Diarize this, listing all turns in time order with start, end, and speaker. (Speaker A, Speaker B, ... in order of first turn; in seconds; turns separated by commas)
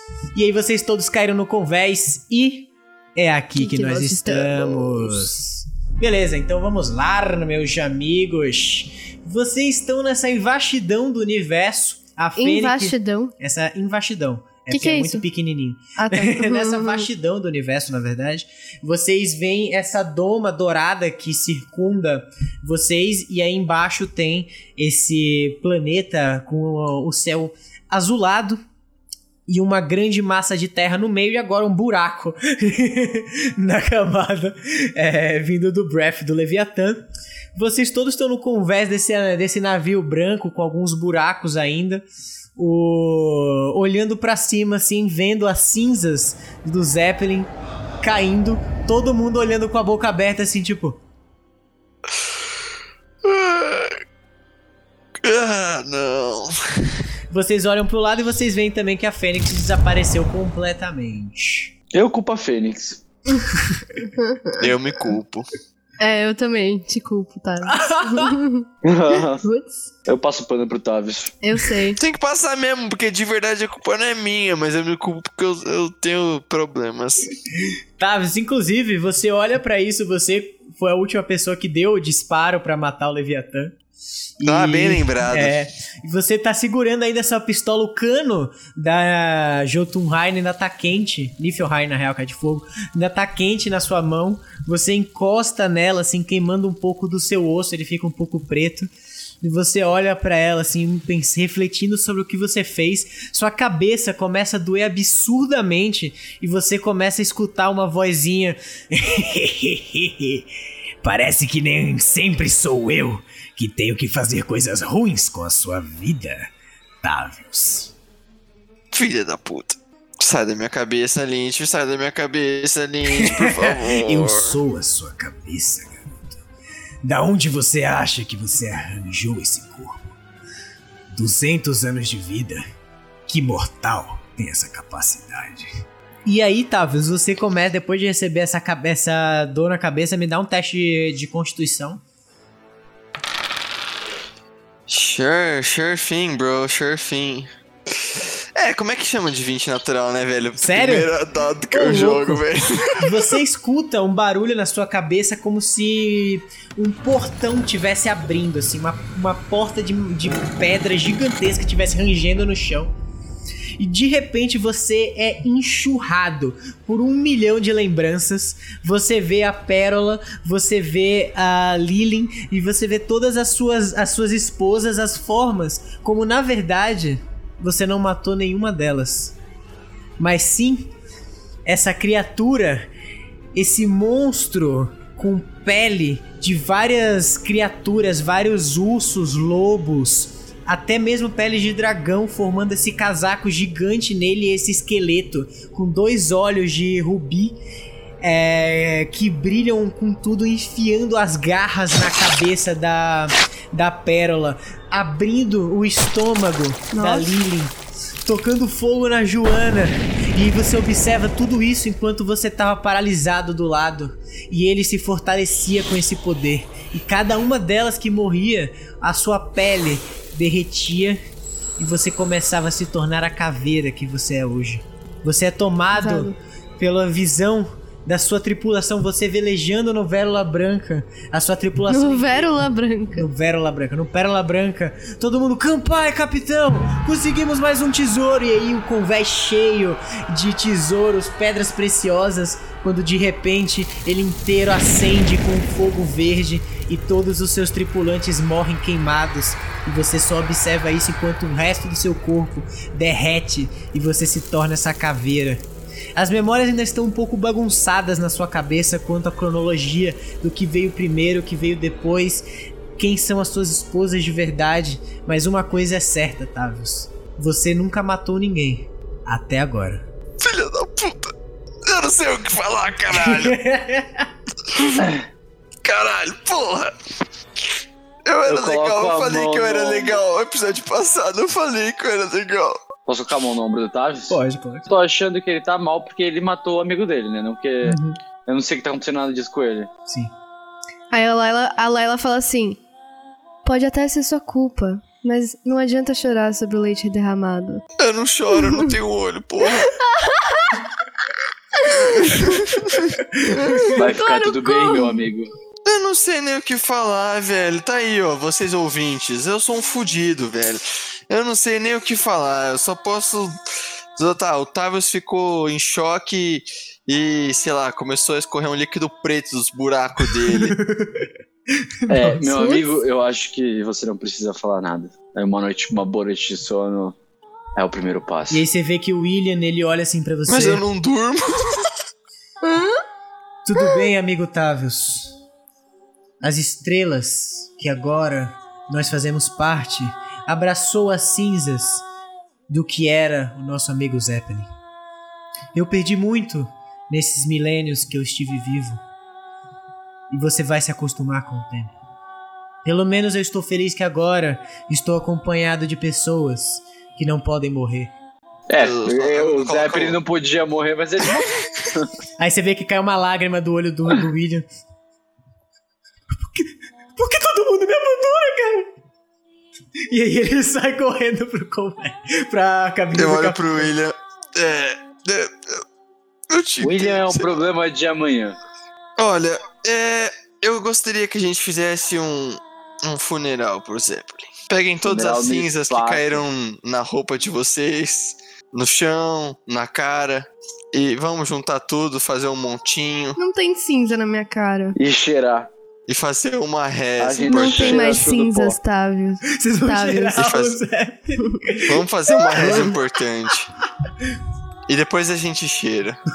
Speaker A: 0.3-28.6, Speaker B: 3.5-5.5, Speaker B: 12.4-13.3, Speaker B: 14.7-15.2, Speaker B: 16.0-17.1, Speaker A: 29.5-37.0, Speaker A: 37.5-42.0, Speaker A: 42.6-47.5, Speaker A: 48.0-51.0, Speaker C: 53.2-54.0, Speaker C: 55.2-56.9, Speaker A: 57.3-61.7, Speaker D: 61.9-63.0, Speaker B: 64.1-64.6, Speaker C: 64.6-65.5, Speaker B: 66.0-69.9, Speaker A: 67.6-68.4, Speaker D: 68.8-69.5, Speaker D: 70.0-71.3, Speaker B: 71.4-72.0, Speaker C: 72.0-77.3, Speaker A: 78.0-83.8, Speaker A: 84.4-98.9, Speaker C: 84.4-85.6, Speaker A: 99.4-110.5, Speaker A: 111.0-116.5, Speaker A: 117.0-117.9, Speaker C: 118.9-124.6, Speaker A: 123.0-126.4, Speaker A: 127.0-130.1, Speaker A: 131.1-132.6, Speaker A: 133.3-135.7, Speaker A: 136.2-142.0, Speaker C: 144.9-147.5, Speaker C: 148.0-153.4, Speaker A: 150.6-151.1, Speaker A: 151.7-152.4, Speaker A: 153.0-162.9, Speaker A: 163.8-179.3, Speaker A: 180.2-180.9, Speaker A: 181.7-182.9, Speaker A: 183.5-197.6, Speaker A: 198.2-221.2, Speaker B: 206.9-207.3, Speaker A: 221.8-232.6, Speaker B: 225.9-226.4, Speaker B: 231.9-233.3, Speaker A: 233.1-270.0, Speaker C: 270.4-271.3, Speaker C: 271.9-273.6, Speaker A: 273.1-274.3, Speaker C: 274.7-275.1, Speaker C: 275.8-276.9, Speaker C: 278.2-282.8, Speaker D: 278.4-280.2, Speaker D: 283.1-289.9, Speaker A: 284.3-284.9, Speaker A: 287.8-288.2, Speaker A: 290.1-290.3, Speaker B: 291.1-292.8, Speaker B: 293.6-297.8, Speaker C: 298.0-299.9, Speaker B: 298.6-298.9, Speaker B: 299.7-300.8, Speaker B: 301.8-302.4, Speaker C: 302.0-303.2, Speaker A: 303.4-304.0, Speaker B: 303.5-305.2, Speaker D: 303.9-305.5, Speaker C: 305.8-313.6, Speaker C: 314.1-320.8, Speaker A: 320.3-321.3, Speaker A: 321.8-322.5, Speaker D: 322.1-327.1, Speaker B: 322.5-322.9, Speaker D: 327.8-328.6, Speaker A: 328.5-330.8, Speaker C: 330.5-331.9, Speaker B: 332.6-333.0, Speaker A: 333.6-335.4, Speaker A: 336.4-342.0, Speaker A: 342.7-344.7, Speaker A: 345.7-349.0, Speaker A: 350.3-351.9, Speaker A: 352.8-358.1, Speaker D: 358.7-362.1, Speaker C: 358.8-360.2, Speaker A: 362.4-364.7, Speaker A: 366.4-368.9, Speaker A: 370.1-373.9, Speaker C: 373.1-375.8, Speaker C: 376.5-377.5, Speaker D: 376.8-378.6, Speaker C: 379.2-393.4, Speaker D: 385.0-386.4, Speaker B: 393.4-394.9, Speaker D: 394.9-395.7, Speaker C: 396.1-398.3, Speaker D: 397.2-398.8, Speaker B: 397.5-400.4, Speaker A: 399.4-403.0, Speaker C: 400.3-400.8, Speaker C: 401.9-403.7, Speaker C: 404.9-406.2